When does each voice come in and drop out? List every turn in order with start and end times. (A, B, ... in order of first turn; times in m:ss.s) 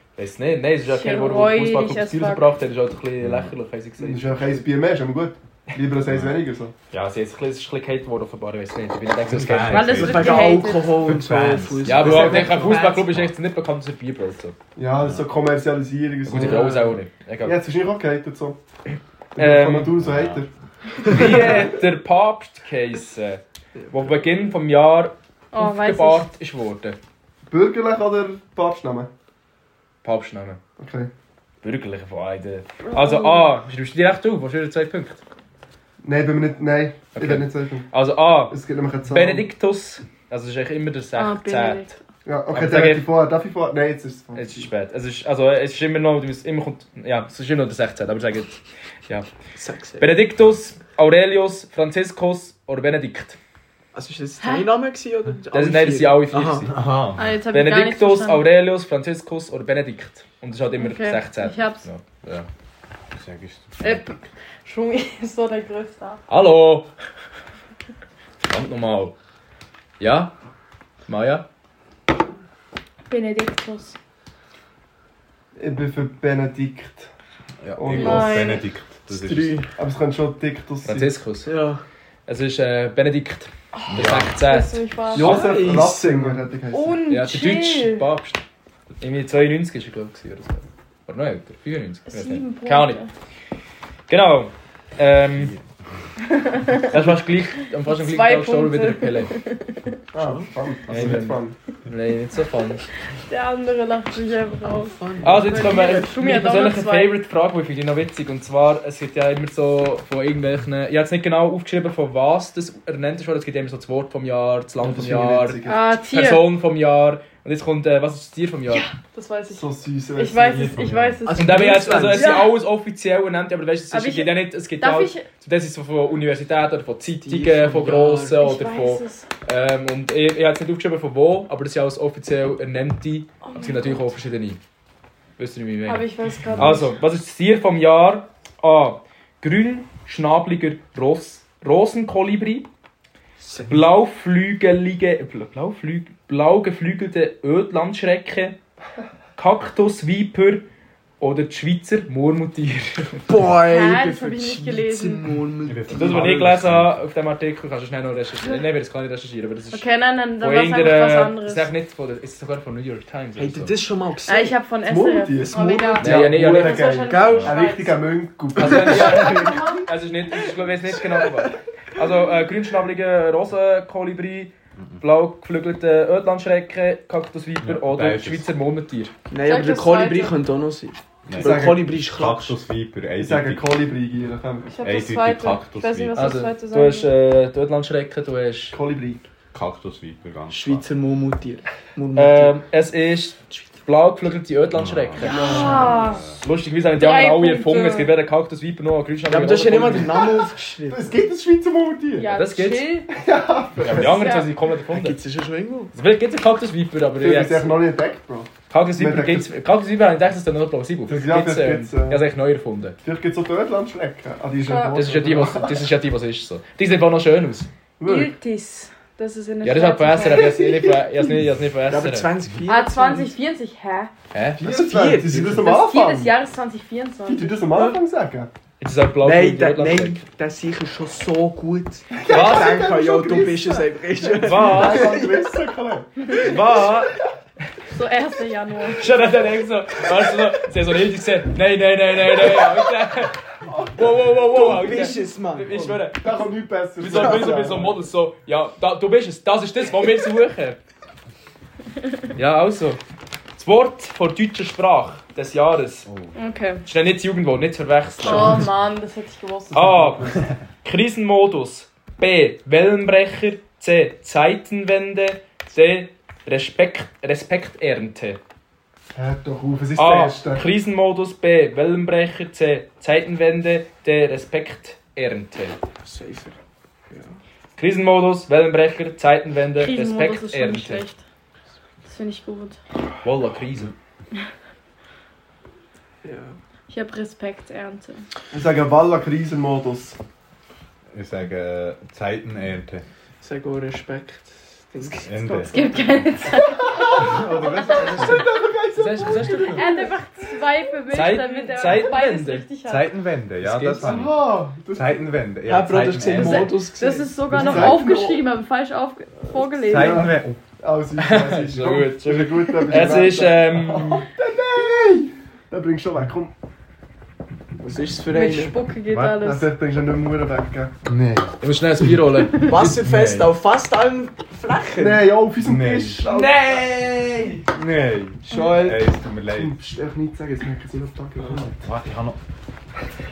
0:00.2-0:04.6 A
0:00.9-0:02.5 B
0:03.2-0:03.5 C
0:04.0-0:06.7 D
0:06.1-0:06.4 C
0:06.9-0:10.0 A
0:09.2-0:13.3 C
0:09.7-0:11.0 B
0:09.9-0:12.9 E
0:11.8-0:14.6 A
0:14.8-0:18.6 D
0:15.0-0:15.3 C
0:16.2-0:17.6 A
0:19.4-0:20.5 D
0:19.4-0:20.0 A
0:20.0-0:20.4 C
0:21.0-0:21.7 D
0:21.1-0:27.0 A
0:23.8-0:24.0 E
0:25.5-0:26.3 B
0:27.5-0:29.1 D
0:30.0-0:30.6 A
0:30.8-0:31.1 D
0:31.6-0:35.2 A
0:32.8-0:33.5 B
0:36.0-0:37.9 D
0:37.1-0:42.0 A
0:38.5-0:39.5 D
0:41.2-0:42.0 B
0:42.2-0:44.7 D
0:42.5-0:43.1 A
0:44.4-0:49.3 A
0:49.6-0:50.2 E
0:50.0-0:53.4 A
0:53.9-0:56.7 E
0:54.4-0:54.7 B
0:55.5-0:56.8 A
0:56.7-0:57.4 C
0:57.2-0:58.5 B
0:57.5-1:02.5 A
1:00.8-1:01.9 B
1:03.1-1:04.0 C
1:03.8-1:06.2 B
1:06.3-1:06.9 A
1:08.4-1:09.2 A
1:10.0-1:10.3 A
1:11.1-1:11.5 A
1:13.1-1:14.0 B
1:15.6-1:17.1 D
1:17.6-1:19.7 C
1:17.8-1:18.5 D
1:18.0-1:18.6 B
1:19.1-1:19.7 E
1:19.7-1:21.1 D
1:20.8-1:21.5 A
1:21.5-1:21.8 E
1:22.3-1:24.8 A
1:23.7-1:25.5 B
1:23.9-1:24.4 C
1:25.1-1:27.0 D
1:25.2-1:26.5 E
1:26.7-1:28.1 B
1:27.1-1:28.4 A
1:29.0-1:33.0 A
1:32.1-1:33.1 B
1:34.1-1:35.6 A
1:36.3-1:36.9 B
1:36.8-1:39.3 A
1:37.9-1:40.0 B
1:40.1-1:41.6 D
1:40.2-1:40.5 E
1:40.9-1:42.8 A
1:43.3-1:47.2 B
1:44.9-1:46.1 E
1:45.2-1:58.9 A
1:54.8-1:55.9 D
1:55.6-1:56.5 B
1:58.7-2:02.6 B
1:59.5-2:00.8 D
2:00.4-2:01.2 C
2:01.3-2:02.4 E
2:01.4-2:14.6 A
2:03.9-2:05.3 B
2:07.2-2:08.4 E
2:08.4-2:09.3 B
2:13.4-2:14.1 B
2:15.4-2:22.7 A
2:15.9-2:16.9 B
2:16.5-2:16.8 C
2:23.4-2:23.8 E
2:23.7-2:28.6 A
2:29.4-2:30.6 A
2:31.2-2:33.3 A
2:33.3-2:36.4 E
2:33.6-2:35.4 B
2:35.6-2:37.1 C
2:35.9-2:39.8 A
2:39.7-2:41.7 B
2:40.4-2:43.8 A
2:43.4-2:44.6 E
2:44.3-2:48.0 B
2:44.9-2:49.7 D
2:46.0-2:46.9 A
2:47.1-2:47.8 E
2:48.6-2:59.1 A
2:48.7-2:49.7 E
2:49.3-2:49.9 B
2:50.9-2:51.5 E
2:54.8-2:55.0 C
2:57.6-2:58.5 C
2:59.3-3:02.6 E
2:59.4-3:00.4 B
3:01.3-3:03.8 C
3:01.4-3:01.9 D
3:03.2-3:04.7 D
3:04.7-3:07.1 B
3:04.8-3:06.3 C
3:06.2-3:08.8 A
3:08.7-3:09.2 D
3:09.5-3:10.8 C
3:10.5-3:12.6 E
3:12.1-3:15.5 A
3:14.7-3:16.4 C
3:15.2-3:16.2 B
3:15.2-3:16.1 E
3:16.4-3:20.2 A
3:17.0-3:18.1 B
3:19.3-3:21.2 E
3:20.9-3:22.4 D
3:22.2-3:23.1 B
3:22.3-3:22.9 A
3:23.1-3:24.2 D
3:23.8-3:25.2 A
3:24.1-3:24.5 B
3:24.9-3:25.9 E
3:25.9-3:27.8 A
3:27.2-3:29.5 D
3:28.7-3:33.0 A
3:31.1-3:32.3 D
3:33.0-3:35.9 D
3:34.7-3:35.0 B
3:35.0-3:37.7 A
3:38.0-3:38.4 D
3:38.0-3:40.7 B
3:39.6-3:42.3 A
3:40.3-3:41.0 E
3:41.9-3:43.4 E
3:42.7-3:44.1 B
3:44.3-3:44.6 A
3:44.6-3:46.3 D
3:44.6-3:45.8 E
3:45.6-3:47.7 B
3:47.3-3:48.5 D
3:48.8-3:50.2 A
3:49.2-3:55.4 E
3:52.1-3:57.0 D
3:52.3-3:52.8 A
3:54.4-3:55.3 A
3:56.3-3:57.1 A
3:57.9-3:59.2 B
3:59.0-4:03.4 A
4:03.6-4:04.4 D
4:04.0-4:06.3 A
4:04.5-4:06.1 E
4:06.2-4:08.0 D
4:07.0-4:10.8 A
4:12.4-4:13.0 A
4:13.6-4:16.1 A
4:16.1-4:16.3 C
4:16.4-4:16.8 B
4:16.9-4:18.6 A
4:18.2-4:20.2 B
4:19.7-4:28.4 A
4:19.9-4:20.4 D
4:29.2-4:30.6 D
4:30.0-4:35.8 A
4:36.0-4:36.6 E
4:37.1-4:37.4 E
4:37.8-4:41.0 A
4:39.8-4:41.2 B
4:42.1-4:42.8 B
4:43.2-4:43.9 A
4:46.2-4:46.6 E
4:46.9-4:48.2 B
4:48.5-4:50.2 D
4:51.1-4:53.0 C
4:53.4-4:56.0 E
4:55.0-4:55.8 C
4:55.7-4:57.4 B
4:56.6-5:00.1 D
4:57.2-4:58.5 C
4:58.0-4:58.3 B
4:59.0-4:59.9 A
4:59.7-5:03.1 B
5:01.1-5:02.7 A
5:02.8-5:06.8 C
5:03.6-5:04.3 A
5:04.0-5:05.2 D
5:05.7-5:07.4 E
5:06.3-5:10.3 B
5:07.5-5:08.5 D
5:07.6-5:08.0 C
5:09.8-5:10.6 C
5:09.9-5:16.5 D
5:11.2-5:14.2 A
5:17.8-5:18.8 E
5:18.3-5:19.7 B
5:19.1-5:19.4 C
5:19.3-5:21.0 D
5:21.0-5:22.2 C
5:21.6-5:23.0 A
5:22.6-5:25.4 E
5:22.9-5:23.5 C
5:25.0-5:26.8 D
5:25.6-5:26.2 C
5:26.3-5:27.5 A
5:27.7-5:29.8 C
5:28.5-5:29.0 E
5:29.5-5:31.8 D
5:31.5-5:32.4 C